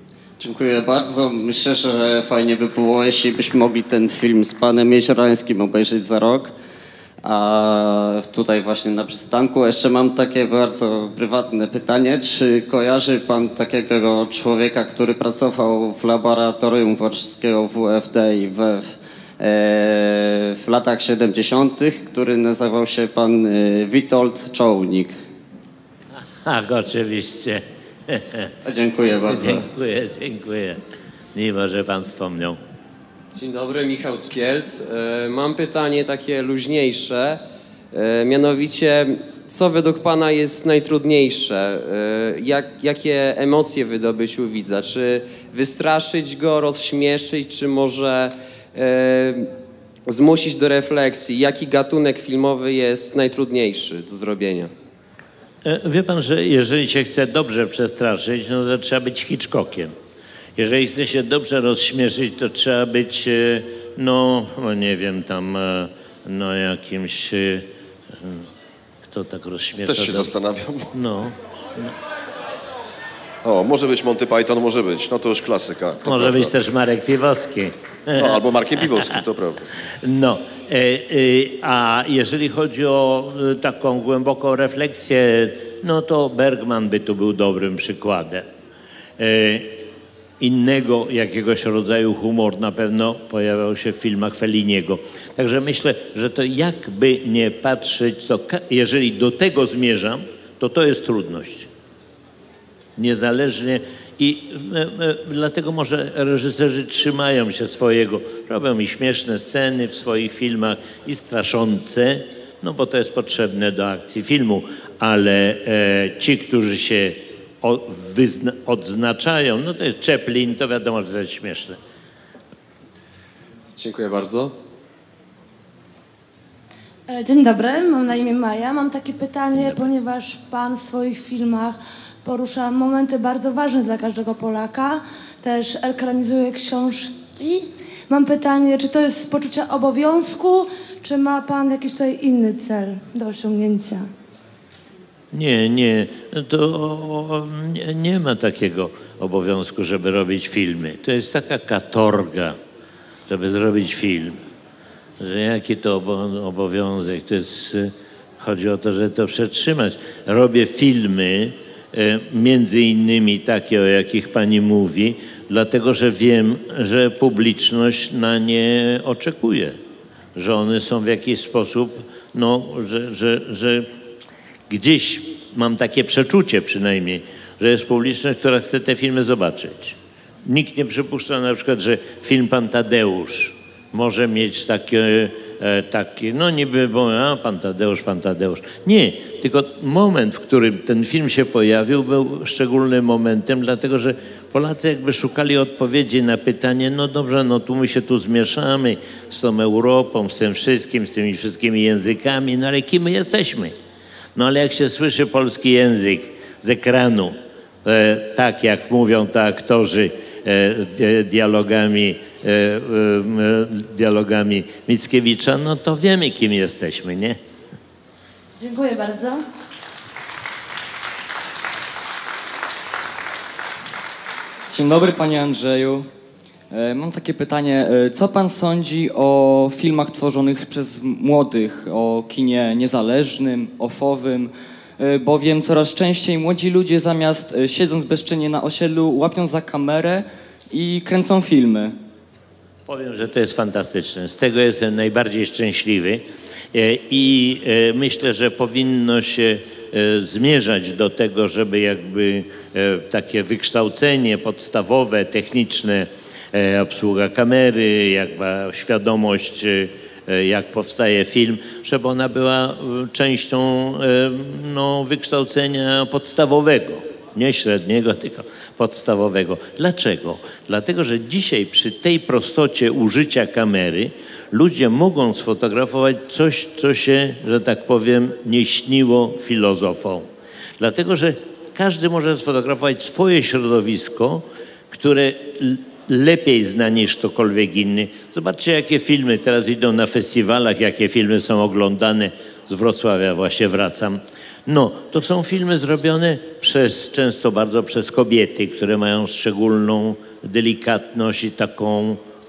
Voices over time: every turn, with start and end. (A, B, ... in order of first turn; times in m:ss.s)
0:00.4-0:06.5 A
0:07.2-0:25.1 A
0:26.2-0:28.4 B
0:28.7-0:29.6 A
0:29.3-0:30.8 B
0:31.3-0:32.6 B
0:33.3-0:37.4 C
0:37.9-0:49.5 C
0:50.1-0:54.7 C
0:55.6-0:59.9 B
1:00.6-1:08.5 B
1:09.1-1:10.3 B
1:09.8-1:10.9 D
1:10.9-1:12.0 B
1:13.4-1:16.5 D
1:16.0-1:18.4 B
1:18.1-1:19.6 D
1:20.0-1:28.5 B
1:29.2-1:29.8 B
1:30.4-1:41.7 B
1:43.0-2:01.8 B
2:03.8-2:04.5 E
2:07.1-2:24.1 F
2:25.3-2:32.6 B
2:33.3-2:34.4 B
2:35.2-2:49.8 B
2:50.4-2:53.9 B
2:54.7-3:23.7 B
3:24.4-3:37.4 B
3:38.6-3:39.4 F
3:44.7-3:46.1 E
3:46.7-4:02.0 E
4:02.8-5:02.2 B